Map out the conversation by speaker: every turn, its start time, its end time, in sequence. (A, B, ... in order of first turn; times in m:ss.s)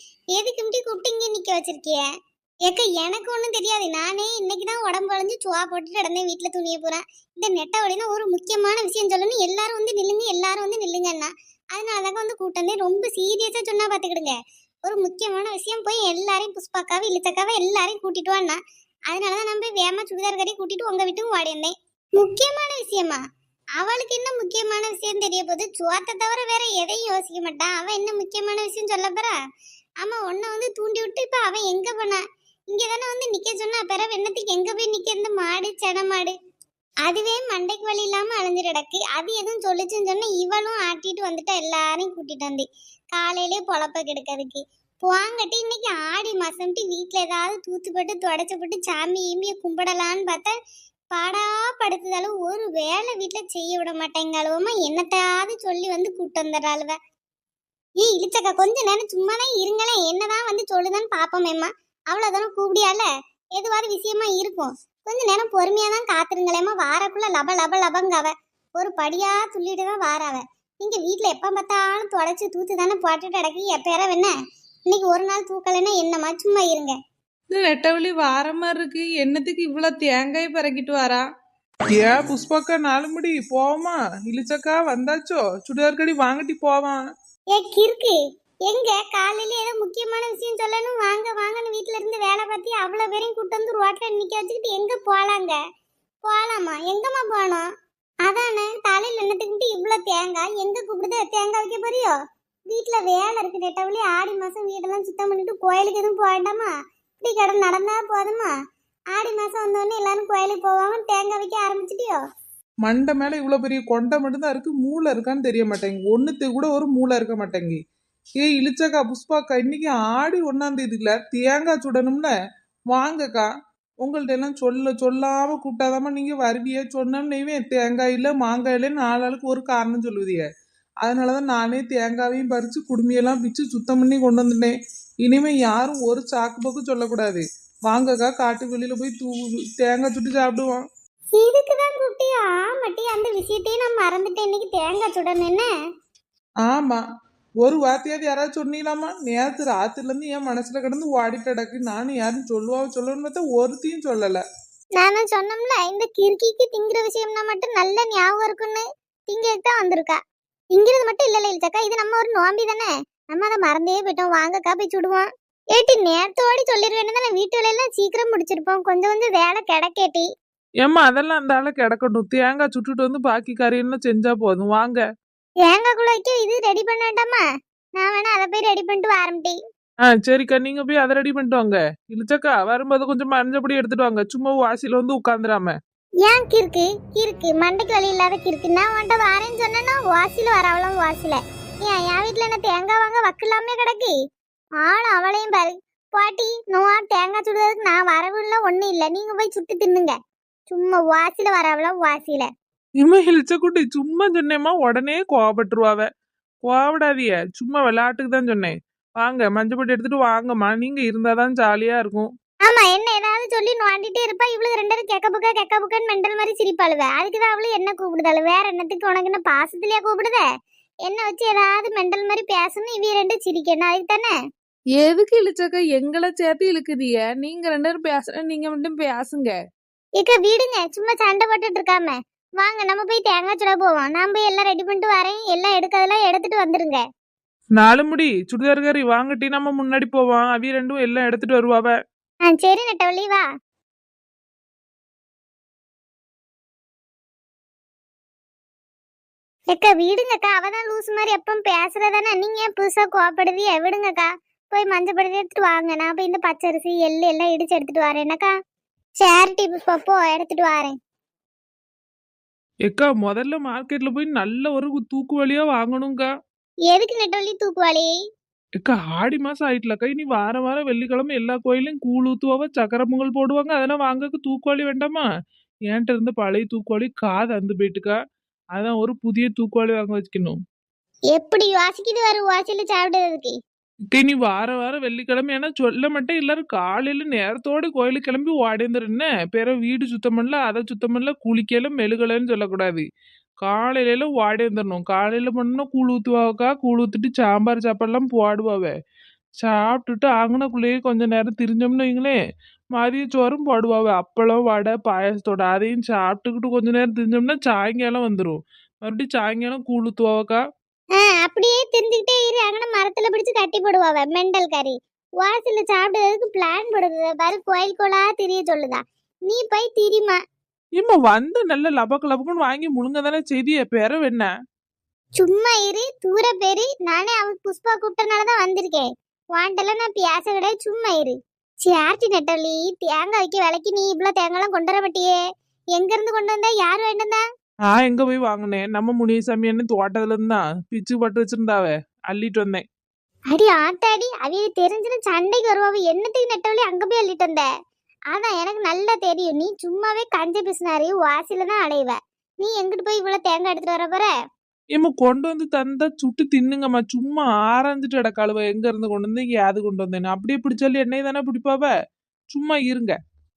0:00.3-0:02.0 A
0:02.7-0:23.2 A
0:23.8-0:29.4 A
0:30.0-0:36.4 A
0:37.1-0:50.5 A
0:51.1-0:57.0 A
0:58.0-1:14.3 A
1:14.9-1:17.0 A
1:17.5-1:21.2 B
1:22.0-1:27.0 C
1:27.5-1:35.6 A
1:36.2-1:37.6 A
1:38.2-1:42.1 A
1:42.7-1:48.5 A
1:49.1-1:52.2 A
1:52.8-1:57.8 C
1:58.4-2:02.3 C
2:02.9-2:03.5 C
2:04.0-2:10.5 C
2:11.0-2:14.7 C
2:15.2-2:20.8 C
2:21.3-2:25.7 A
2:26.6-2:27.0 C
2:27.6-2:34.4 C
2:35.0-2:40.2 A
2:40.7-2:50.3 A
2:50.8-2:55.0 C
2:55.6-2:57.4 A
2:58.0-2:59.6 A
3:00.1-3:05.8 C
3:06.2-3:14.2 A
3:14.8-3:20.2 A
3:20.7-3:22.5 A
3:23.0-3:26.1 C
3:26.6-3:32.3 C
3:32.7-3:40.4 A
3:41.1-3:44.3 A
3:45.2-3:49.5 C
3:46.7-3:49.2 B
3:50.2-3:57.0 A
3:57.8-4:02.0 C
4:02.5-4:03.4 A
4:09.7-4:18.5 A
4:19.2-4:21.0 A
4:22.9-4:26.3 C
4:26.9-4:28.1 A
4:28.8-4:35.2 C
4:35.9-4:38.2 C
4:38.8-4:40.6 C
4:41.3-4:43.6 A
4:44.1-4:53.1 C
4:53.6-4:58.9 C
4:59.6-5:02.4 C
5:03.0-5:10.6 C
5:11.2-5:20.4 A
5:21.0-5:24.5 C
5:25.4-5:35.4 A
5:36.0-5:37.4 A
5:37.9-5:42.8 C
5:43.5-5:47.7 A
5:48.3-5:54.3 A
5:55.0-6:01.9 C
6:02.5-6:03.2 C